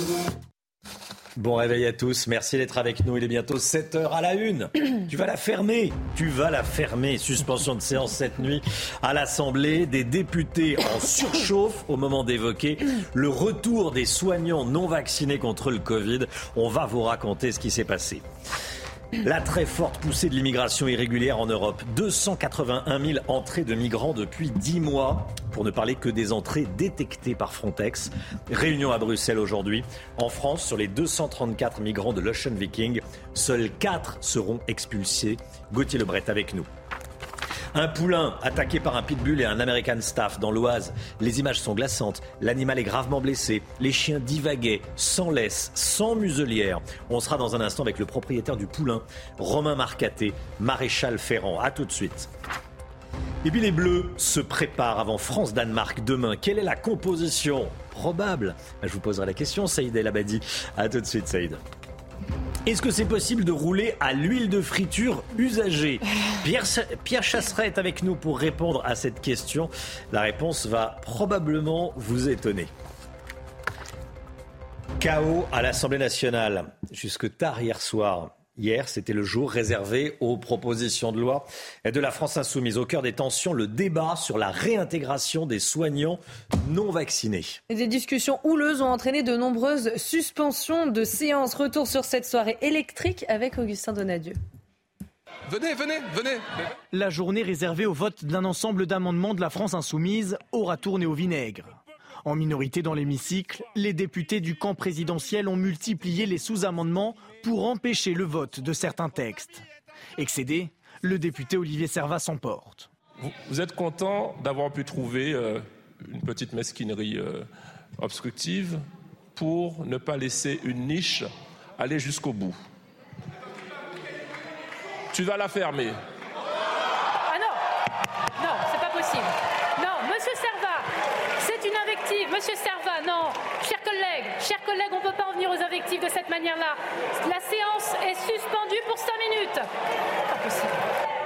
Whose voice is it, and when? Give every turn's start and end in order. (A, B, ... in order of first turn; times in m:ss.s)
0:01.4-0:18.2 A
0:19.2-0:36.7 A
0:37.7-0:52.3 A
0:53.4-1:01.6 A
1:02.6-1:12.7 A
1:15.0-1:27.6 A
1:27.7-1:34.4 B
1:35.6-1:36.4 C
1:36.9-1:49.6 D
1:50.2-1:52.9 D
1:53.2-1:57.5 C
1:58.0-1:58.8 C
1:59.3-2:02.6 C
2:05.1-2:06.0 C
2:07.2-2:07.6 E
2:08.4-2:10.9 E
2:11.4-2:19.7 E
2:20.3-2:20.8 E